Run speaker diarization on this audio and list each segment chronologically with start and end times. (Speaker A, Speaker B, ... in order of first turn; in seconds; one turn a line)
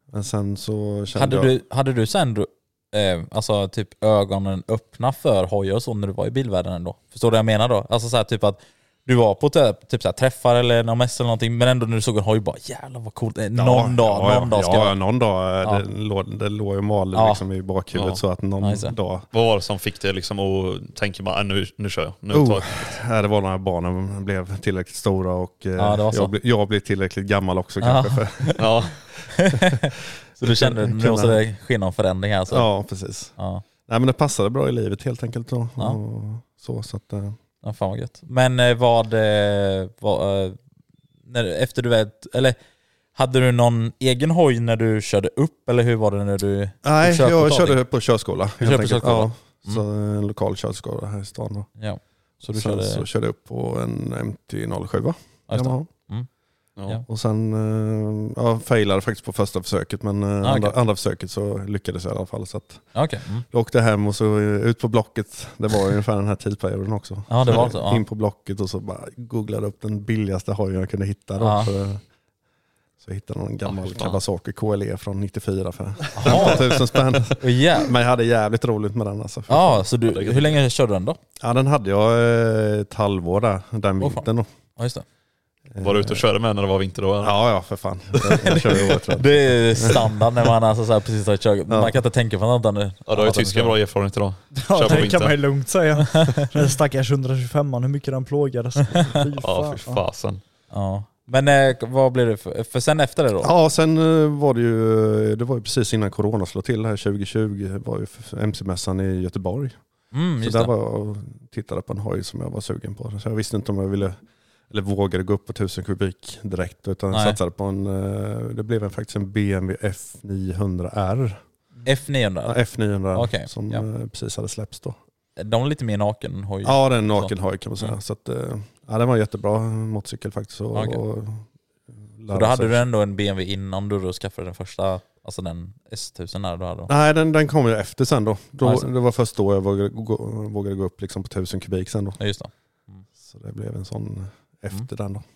Speaker A: 0.1-1.6
Speaker B: 1.1-14.9
Speaker A: 13.5-19.3
Speaker B: 17.1-17.4
Speaker C: 17.9-18.2
Speaker B: 18.6-18.9
Speaker C: 19.3-23.0
Speaker A: 22.3-28.8
Speaker B: 25.8-26.3
Speaker B: 27.8-28.6
Speaker C: 28.6-28.9
Speaker B: 29.4-32.7
Speaker A: 30.4-31.4
Speaker A: 32.5-37.4
Speaker B: 33.4-33.6
Speaker B: 37.6-40.6
Speaker B: 41.3-42.5
Speaker B: 43.1-47.8
Speaker A: 46.8-51.7
Speaker B: 48.6-49.8
Speaker B: 51.8-53.0
Speaker A: 52.5-55.9
Speaker B: 55.5-56.3
Speaker A: 57.1-72.0
Speaker B: 60.4-60.7
Speaker B: 62.9-63.5
Speaker B: 67.3-68.0
Speaker B: 71.4-71.7
Speaker A: 73.0-79.8
Speaker C: 73.6-74.2
Speaker B: 76.2-76.7
Speaker B: 77.4-77.9
Speaker B: 79.5-81.2
Speaker C: 80.1-80.6
Speaker A: 81.4-84.5
Speaker B: 84.8-85.0
Speaker A: 85.7-86.2
Speaker C: 85.8-87.3
Speaker A: 87.2-90.1
Speaker B: 88.3-93.8
Speaker A: 91.7-92.0
Speaker C: 93.1-95.4
Speaker D: 94.5-100.0
Speaker C: 99.4-100.4
Speaker B: 100.7-103.5
Speaker A: 103.4-121.4
Speaker B: 110.1-110.7
Speaker B: 121.8-122.6
Speaker A: 122.4-125.0
Speaker B: 123.1-123.8
Speaker B: 125.4-128.0
Speaker A: 126.6-131.4
Speaker B: 130.7-131.0
Speaker A: 132.2-132.8
Speaker B: 132.3-136.9
Speaker A: 136.9-142.2
Speaker B: 142.2-143.0
Speaker A: 143.2-145.2